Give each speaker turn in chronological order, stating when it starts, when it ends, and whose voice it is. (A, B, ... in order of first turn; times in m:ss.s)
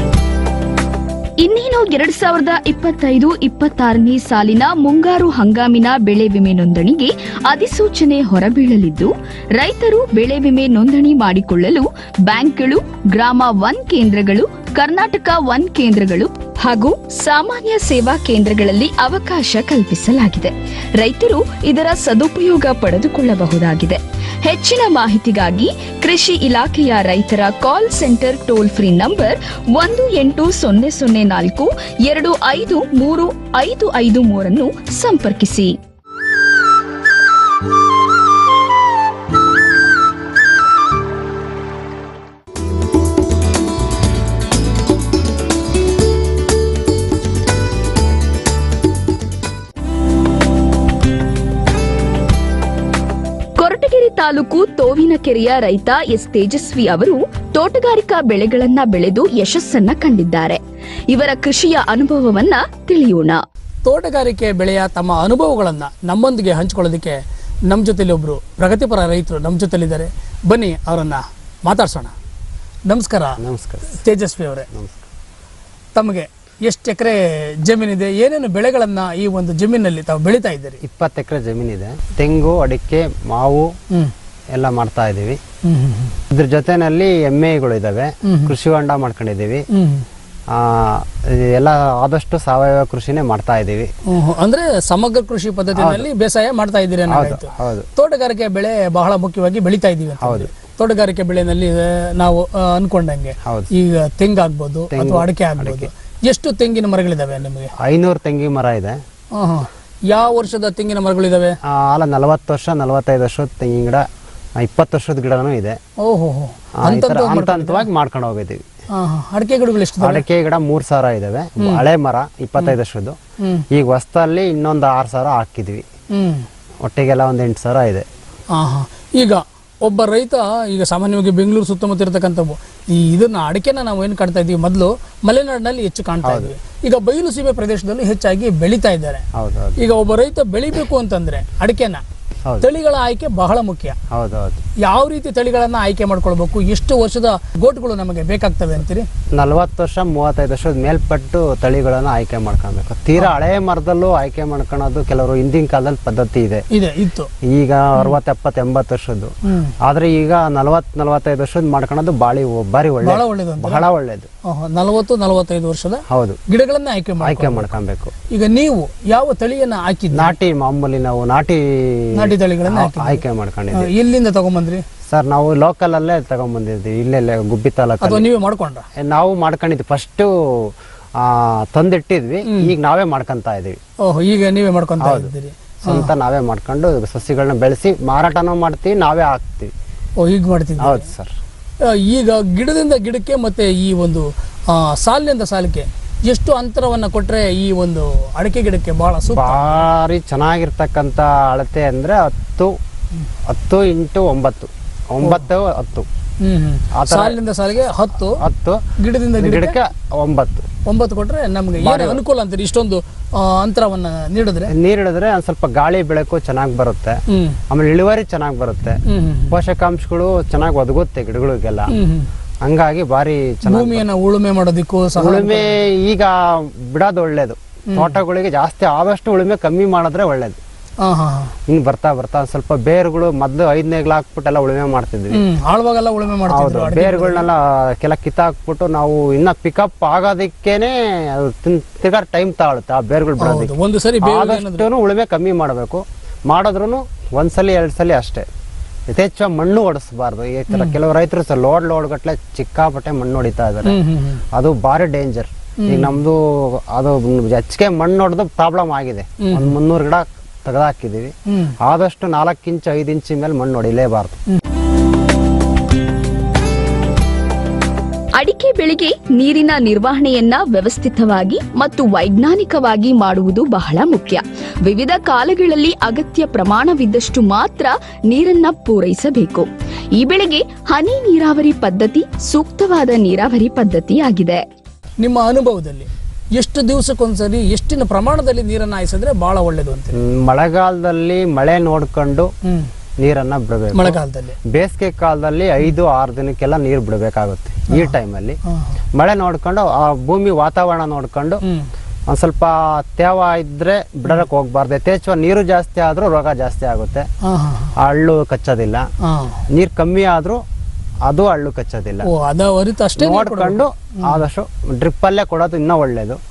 0:01.4-0:35.8 A
0:53.6-1:03.4 A
1:03.8-1:12.1 B
1:12.9-1:13.4 B
1:13.4-1:13.9 C
1:13.9-1:14.7 B
1:14.7-1:15.0 C
1:15.9-1:20.8 B
1:20.8-1:23.7 C
1:24.5-1:25.4 C
1:25.6-1:26.2 B
1:26.3-1:29.6 C
1:28.2-1:28.5 B
1:29.7-1:30.0 B
1:30.5-1:33.9 C
1:34.1-1:47.7 B
1:35.7-1:36.1 C
1:37.1-1:37.8 C
1:40.2-1:40.5 C
1:43.4-1:43.7 C
1:44.9-1:45.9 C
1:47.8-1:49.0 C
1:49.4-1:51.6 B
1:51.6-1:55.8 C
1:56.0-1:57.9 B
1:56.8-1:58.6 C
1:58.9-2:00.2 B
2:00.0-2:03.2 C
2:03.7-2:05.8 C
2:06.1-2:06.4 B
2:06.8-2:08.0 C
2:08.5-2:19.2 B
2:16.2-2:16.5 C
2:19.3-2:19.8 C
2:19.8-2:22.0 B
2:22.6-2:24.0 B
2:24.1-2:24.6 C
2:24.8-2:29.1 B
2:29.3-2:36.6 C
2:36.7-2:37.3 B
2:37.4-2:44.3 C
2:39.4-2:39.7 B
2:43.0-2:43.8 B
2:44.4-2:47.7 B
2:46.1-2:46.4 C
2:47.2-2:48.1 C
2:48.3-2:50.3 B
2:50.1-2:53.9 C
2:52.1-2:54.8 B
2:55.1-2:58.3 C
2:58.0-2:58.9 B
2:58.9-3:03.8 C
3:02.4-3:02.7 B
3:04.0-3:06.1 B
3:05.0-3:05.3 C
3:05.8-3:09.7 C
3:10.2-3:11.1 B
3:10.8-3:11.4 C
3:11.8-3:19.8 B
3:19.3-3:22.8 C
3:23.5-3:26.1 C
3:26.4-3:28.4 B
3:26.9-3:27.4 C
3:28.3-3:28.8 C
3:29.0-3:29.8 B
3:29.4-3:30.6 C
3:30.8-3:34.7 B
3:31.8-3:32.2 C
3:34.7-3:39.0 C
3:37.3-3:37.6 B
3:39.1-3:39.5 B
3:39.5-3:42.0 C
3:41.9-3:42.3 B
3:42.6-3:44.1 C
3:43.6-3:45.8 B
3:45.2-3:50.6 C
3:47.9-3:48.2 B
3:51.0-3:51.5 B
3:51.7-3:55.4 C
3:55.3-3:57.4 B
3:56.5-4:08.5 C
4:03.4-4:04.9 B
4:09.1-4:14.0 C
4:10.7-4:11.0 B
4:13.8-4:14.4 B
4:14.5-4:24.4 C
4:15.8-4:16.2 B
4:19.4-4:19.7 B
4:21.5-4:21.8 B
4:28.4-4:44.6 A
4:45.2-4:50.2 B
4:50.1-4:52.5 C
4:53.2-4:58.6 C
4:53.9-4:54.6 B
4:59.1-5:01.6 C
5:01.6-5:01.9 B
5:02.3-5:07.3 C
5:07.4-5:07.9 B
5:08.0-5:09.0 C
5:09.2-5:09.6 B
5:09.7-5:10.6 C
5:11.2-5:12.3 C
5:12.2-5:14.4 B
5:13.2-5:16.4 C